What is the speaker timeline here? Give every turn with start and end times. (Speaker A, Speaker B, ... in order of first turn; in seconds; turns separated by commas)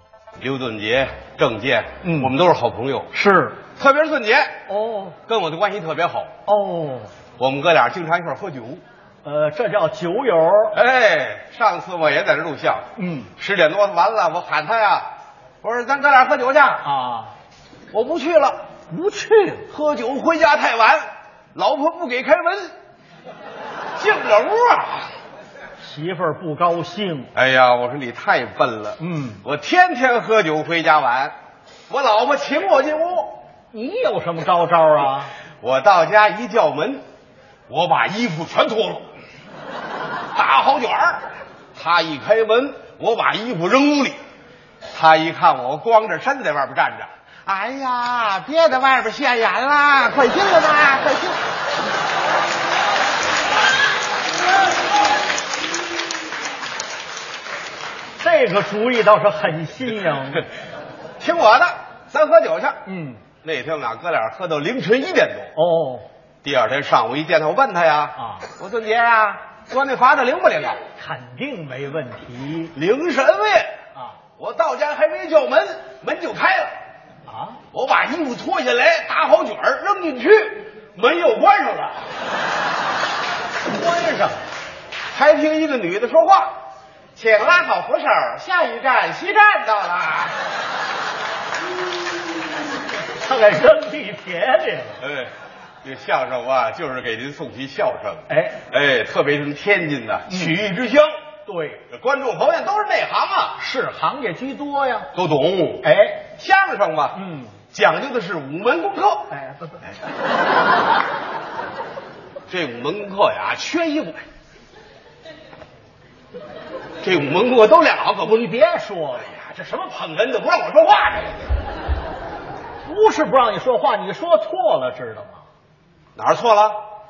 Speaker A: 0.4-3.1, Speaker B: 2.0-2.3, Speaker B: 3.1-3.6, Speaker A: 3.8-4.6, Speaker B: 4.7-5.2, Speaker A: 5.3-6.3, Speaker B: 6.5-7.1, Speaker A: 7.4-8.8, Speaker B: 9.2-10.7, Speaker A: 10.7-15.1, Speaker B: 13.0-13.3, Speaker A: 15.6-16.8, Speaker B: 16.8-17.3, Speaker A: 17.9-18.6, Speaker B: 18.9-19.7, Speaker A: 19.7-22.7, Speaker A: 24.0-25.1, Speaker B: 25.8-27.3, Speaker A: 27.3-31.3, Speaker B: 29.0-29.4, Speaker A: 31.9-33.4, Speaker B: 33.7-35.3, Speaker A: 35.6-37.0, Speaker A: 37.7-39.1, Speaker A: 40.3-44.2, Speaker A: 44.9-51.4, Speaker B: 58.2-60.4, Speaker A: 61.2-62.8, Speaker B: 62.9-63.2, Speaker A: 63.4-65.5, Speaker B: 65.5-66.0, Speaker A: 66.4-70.8, Speaker B: 68.2-68.5, Speaker B: 71.0-72.7, Speaker A: 72.7-73.7, Speaker A: 74.4-76.7, Speaker B: 77.2-77.6, Speaker A: 77.7-82.1, Speaker B: 83.7-84.4, Speaker A: 85.1-86.5, Speaker A: 87.1-90.4, Speaker B: 93.2-95.0, Speaker A: 95.0-95.3, Speaker A: 95.8-101.1, Speaker B: 98.3-98.6, Speaker B: 100.3-100.5, Speaker B: 101.5-101.8, Speaker A: 101.9-103.6, Speaker B: 103.6-105.1, Speaker A: 105.1-105.9, Speaker B: 105.8-106.2, Speaker A: 106.4-107.2, Speaker B: 107.1-107.5, Speaker A: 107.7-109.3, Speaker B: 109.3-110.0, Speaker A: 112.5-114.2, Speaker A: 117.0-118.5, Speaker B: 118.2-119.3, Speaker A: 119.3-121.5, Speaker B: 122.8-125.4, Speaker A: 126.2-126.8